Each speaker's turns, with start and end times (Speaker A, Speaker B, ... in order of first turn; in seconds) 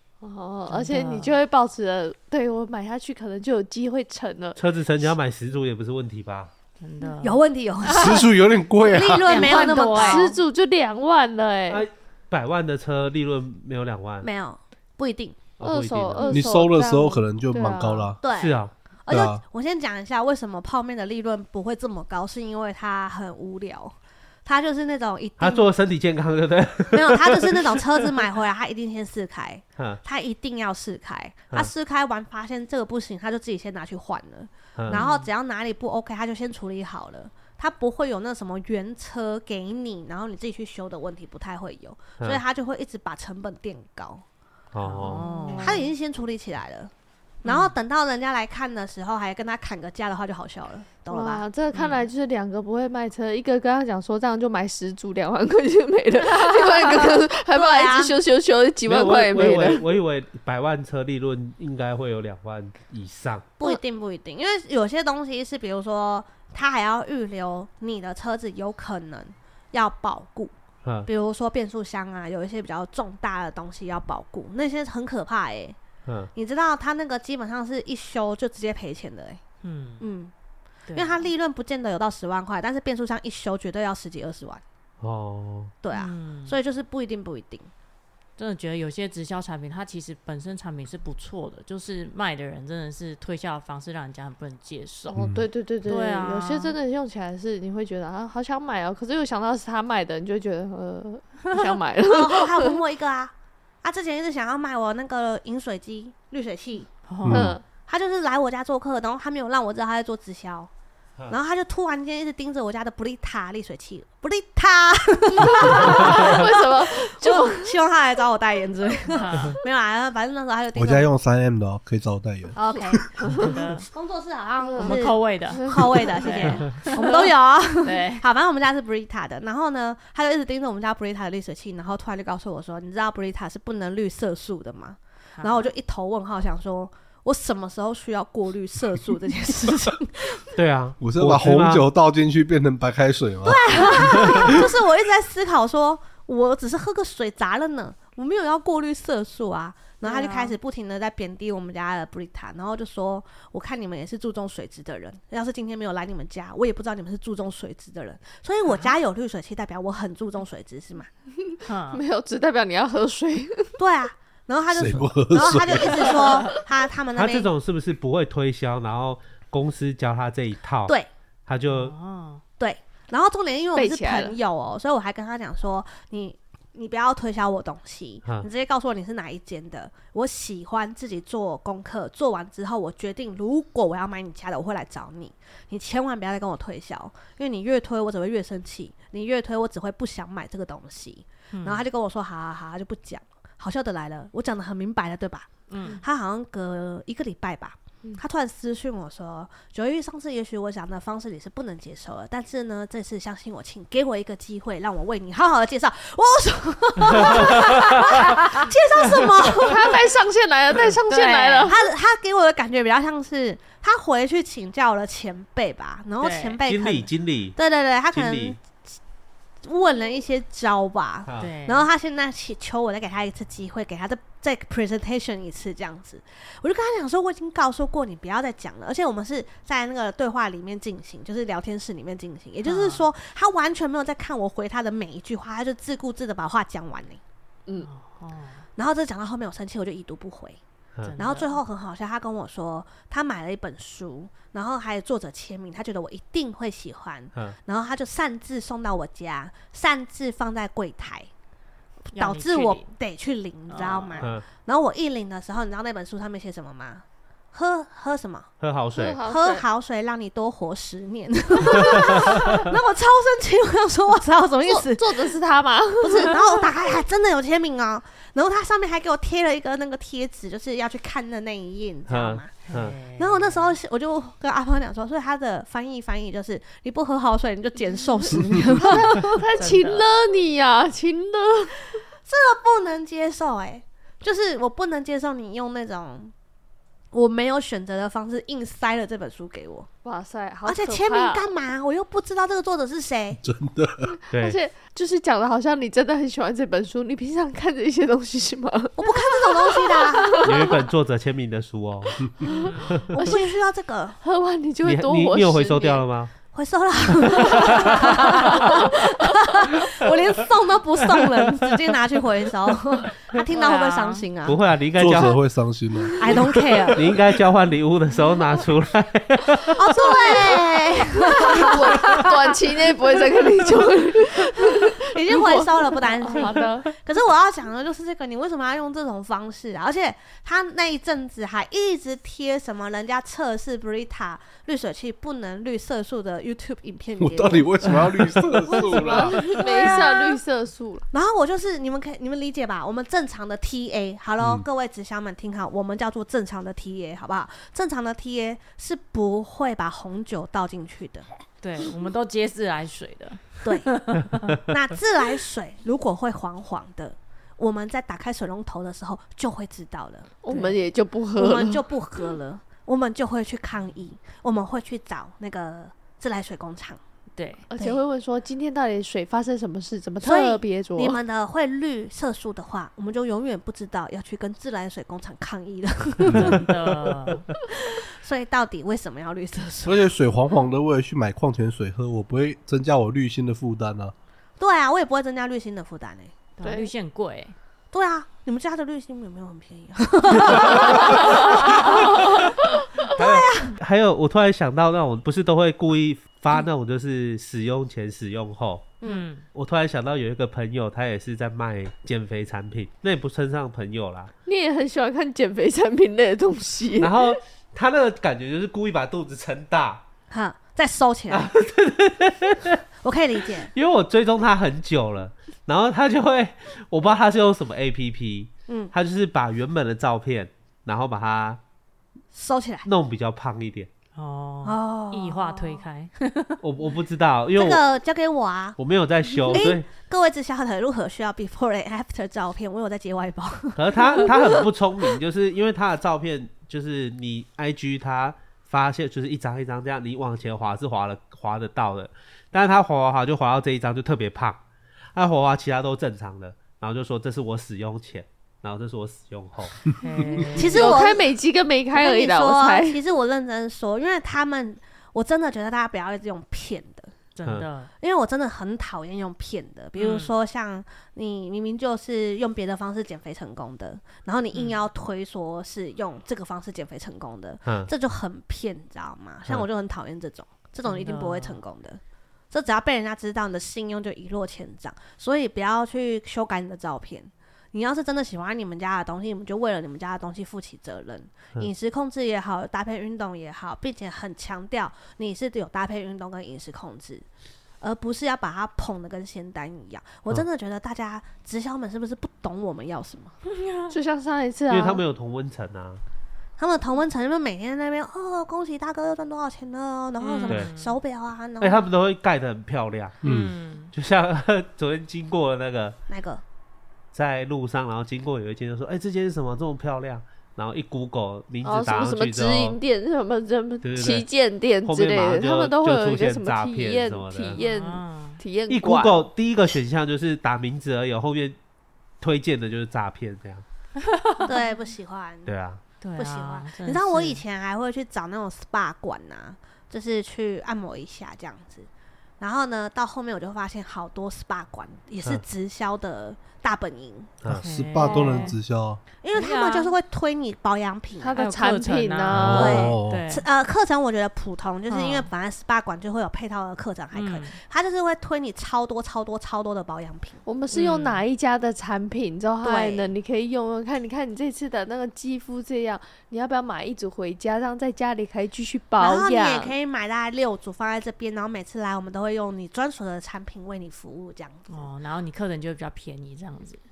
Speaker A: 0.2-4.6, 9.4-11.8, 15.6-18.1, 45.1-45.8, 51.1-59.8, 95.1-102.8, 107.3-107.6, 115.5-117.7, 124.8-126.5, 161.5-163.7, 173.8-174.4, 209.6-211.8, 259.0-259.6, 264.7-266.7, 278.8-281.8, 290.0-291.5, 294.3-300.8, 302.4-303.4, 304.2-306.0, 307.5-308.0, 321.3-326.9, 338.7-341.1, 360.4-361.9, 367.7-371.2, 386.6-386.9, 404.5-407.4, 450.6-453.0, 493.9-495.0, 511.6-519.2, 541.2-542.9, 550.5-559.8
Speaker B: 0.7-1.4, 6.8-7.4, 9.3-10.3, 34.9-35.3, 44.8-45.9, 47.5-47.7, 51.7-52.1, 79.6-80.0, 80.9-81.2, 85.9-86.6, 88.4-95.2, 95.8-96.8, 101.5-101.8, 107.1-107.5, 119.1-119.6, 123.4-123.9, 124.8-127.3, 127.8-128.2, 135.4-135.7, 150.0-150.6, 158.7-159.0, 161.7-162.0, 171.7-172.4, 191.5-191.9, 195.7-196.0, 211.1-211.7, 216.2-216.6, 221.4-221.9, 232.6-233.1, 237.8-238.7, 241.0-241.6, 252.1-252.9, 253.7-254.3, 272.7-273.7, 278.9-280.1, 302.5-303.0, 313.5-314.2, 351.6-354.6, 360.5-360.8, 367.4-367.7, 376.2-377.5, 386.6-387.6, 391.1-391.5, 399.0-399.4, 424.1-426.6, 450.0-451.0, 457.4-457.9, 460.0-460.3, 464.5-464.8, 470.9-471.6, 493.4-493.9, 500.2-501.0, 503.2-503.9, 517.5-518.4, 524.0-524.6, 526.0-527.4, 537.5-538.6, 539.3-539.9, 541.4-543.5, 544.9-545.3, 547.1-547.6, 550.7-551.2, 564.7-566.8
Speaker C: 4.6-6.5, 11.7-14.3, 15.6-16.5, 18.3-18.7, 25.4-27.8, 34.8-35.0, 44.7-45.3, 58.9-63.5, 76.1-76.3, 85.0-85.8, 140.6-141.8, 167.2-170.9, 171.5-171.9, 207.5-207.8, 216.7-217.6, 218.1-218.6, 258.6-259.2, 272.1-273.0, 294.3-294.6, 300.4-302.3, 304.8-306.3, 314.4-315.4, 316.9-319.8, 376.3-376.6, 393.1-399.0, 399.5-404.3, 407.0-410.0, 411.3-412.8, 413.7-421.6, 422.9-423.9, 426.6-427.8, 428.8-429.9, 433.8-444.6, 445.1-449.8, 467.6-467.9, 494.7-496.0, 501.6-503.2, 503.9-506.0, 507.1-512.8, 513.8-514.3, 514.8-517.6, 518.7-521.6, 522.2-523.6, 525.5-525.8
Speaker D: 7.2-8.3, 8.8-10.3, 14.2-15.4, 18.2-25.7, 26.9-44.2, 45.6-46.9, 47.4-51.5, 56.7-58.1, 63.6-70.5, 71.0-75.8, 76.3-79.4, 80.0-80.3, 80.9-84.6, 85.8-87.7, 102.1-106.9, 107.9-110.7, 111.3-121.1, 122.5-123.1, 123.9-140.4, 143.4-161.1, 163.8-167.5, 172.6-209.8, 211.7-219.0, 219.6-237.2, 238.8-240.6, 241.2-251.3, 252.1-258.5, 259.2-265.4, 266.0-272.5, 273.2-279.4, 282.2-286.3, 287.1-289.9, 290.6-293.4, 299.0-300.5, 303.1-304.2, 306.5-314.6, 316.2-317.1, 319.7-322.2, 325.0-340.2, 341.1-351.3, 353.6-354.0, 354.7-360.3, 361.4-367.0, 370.2-376.6, 377.9-380.1, 384.6-386.3, 387.9-392.4, 393.1-393.7, 410.3-411.5, 413.0-413.7, 418.7-418.9, 422.3-422.9, 424.6-425.8, 427.6-428.8, 429.5-434.5, 450.6-451.3, 451.9-457.1, 458.0-487.3, 487.8-493.3, 496.6-501.8, 506.1-506.4, 524.4-525.5, 526.2-531.9, 532.4-537.3, 539.2-541.4, 542.5-550.4, 552.6-553.1, 559.0-564.9
Speaker E: 7.9-9.4, 16.3-18.2, 19.1-19.4, 95.2-95.5, 107.2-107.6, 120.8-122.6, 141.0-144.6, 164.7-166.2, 293.4-294.1, 315.0-316.2, 337.2-339.6, 379.9-384.1, 503.2-503.5, 537.5-539.0, 542.4-543.3